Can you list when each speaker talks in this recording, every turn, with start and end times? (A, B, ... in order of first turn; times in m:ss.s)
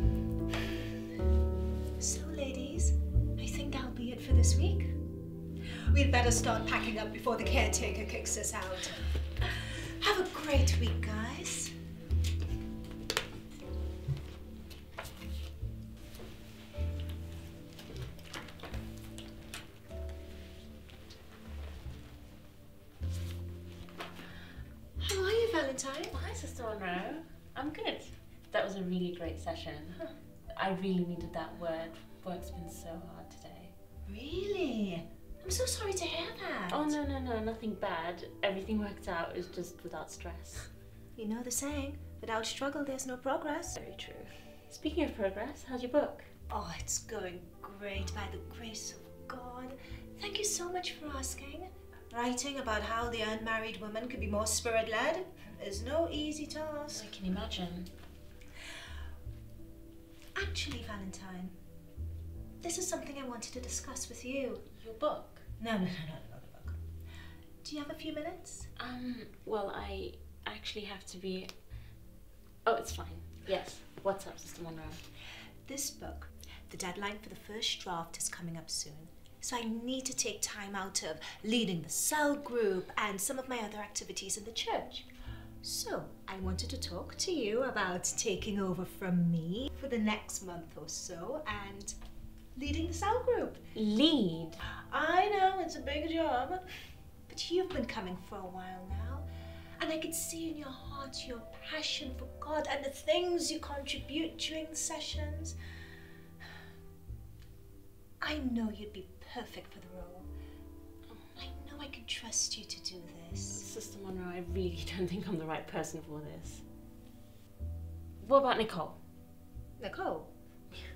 0:02.0-0:05.0 A
0:05.9-0:11.7 A
0:25.0-0:26.1 A
0:26.1-0:30.0 B
0:30.5-0:33.7 B
0:34.0-0:36.9 A
0:36.7-0:40.7 B
0:41.2-0:43.8 A
0:43.8-0:46.3 B
0:46.5-0:57.1 A
0:56.9-0:57.9 B
1:00.4-1:01.6 A
1:02.6-1:04.6 A
1:04.7-1:05.4 B
1:05.6-1:06.8 A
1:07.6-1:08.7 A
1:08.8-1:11.5 B
1:12.6-1:15.0 B
1:15.6-1:25.1 A
1:25.6-1:31.9 A
1:32.5-1:33.6 A
1:33.7-1:34.6 B
1:34.9-1:36.6 A
1:37.3-1:39.2 A
1:39.8-1:45.5 A
1:48.2-1:50.3 A
1:51.4-1:53.6 A
1:53.5-1:56.6 B
1:58.2-1:59.0 B
1:59.8-2:00.3 A